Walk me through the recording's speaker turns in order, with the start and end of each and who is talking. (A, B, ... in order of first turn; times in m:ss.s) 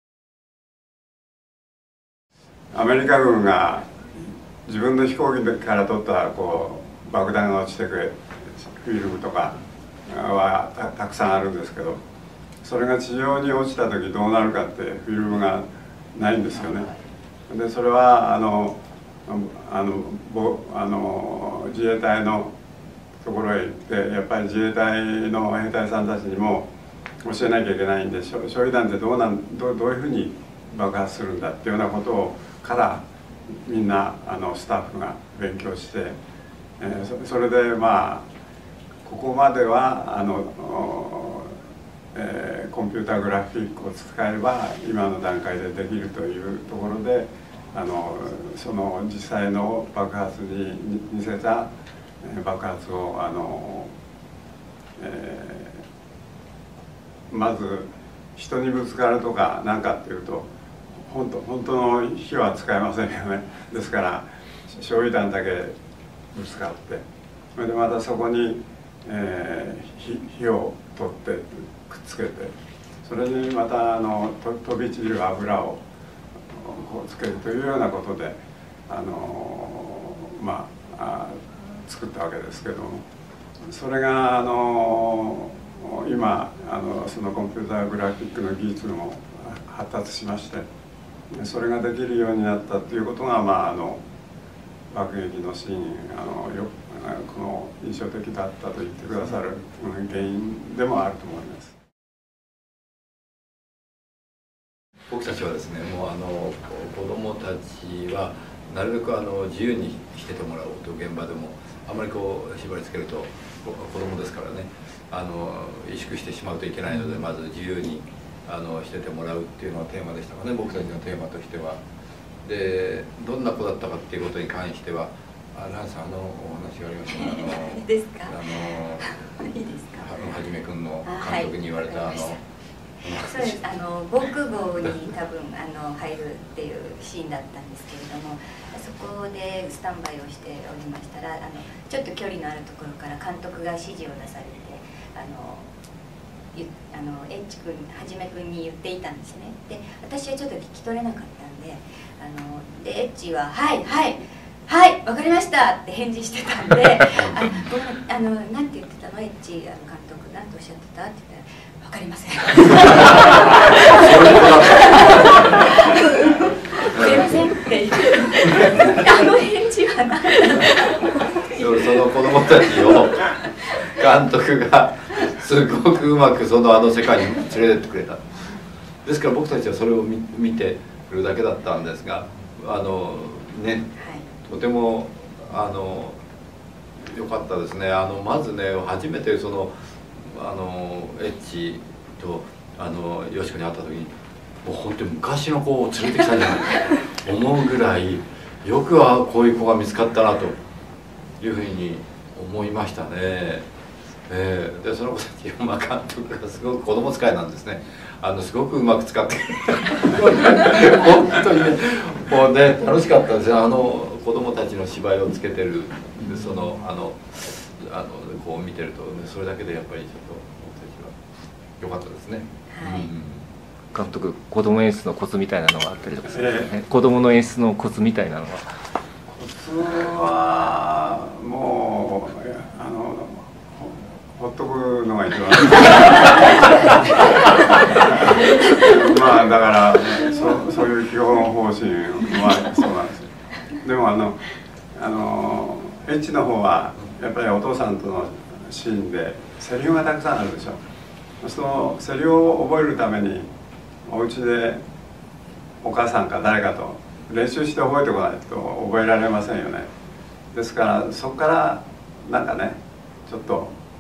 0:02.7-0:12.0 A
0:12.6-0:17.0 A
0:17.5-0:22.5 A
0:23.2-0:26.7 A
0:27.2-0:36.2 A
0:36.8-0:38.3 A
0:39.0-0:41.6 A
0:42.1-0:53.9 A
0:55.0-0:55.8 A
0:57.3-1:05.8 A
1:06.3-1:07.0 A
1:07.6-1:15.8 A
1:16.5-1:23.0 A
1:23.6-1:30.7 A
1:31.3-1:34.0 A
1:34.9-1:41.8 A
1:45.1-2:01.8 B
2:02.4-2:09.2 B
2:07.2-2:10.1 C
2:10.0-2:12.4 B
2:11.0-2:12.4 C
2:13.0-2:13.6 B
2:13.1-2:25.7 C
2:26.5-2:53.6 C
2:37.2-2:37.5 B
2:43.6-2:45.6 B
2:46.9-2:47.4 B
2:51.6-2:58.2 B
2:59.0-3:06.2 B
3:04.0-3:04.3 C
3:07.0-3:14.1 B
3:14.6-3:20.6 B
3:21.4-3:23.7 B
3:24.3-3:41.2 B
3:41.8-3:43.4 B
3:42.7-3:43.1 C
3:43.9-3:48.8 D
3:46.3-3:46.7 A
3:49.3-4:10.8 A
4:11.4-4:13.5 A
4:14.1-4:14.8 A
4:15.8-4:19.9 A
4:20.5-4:23.8 A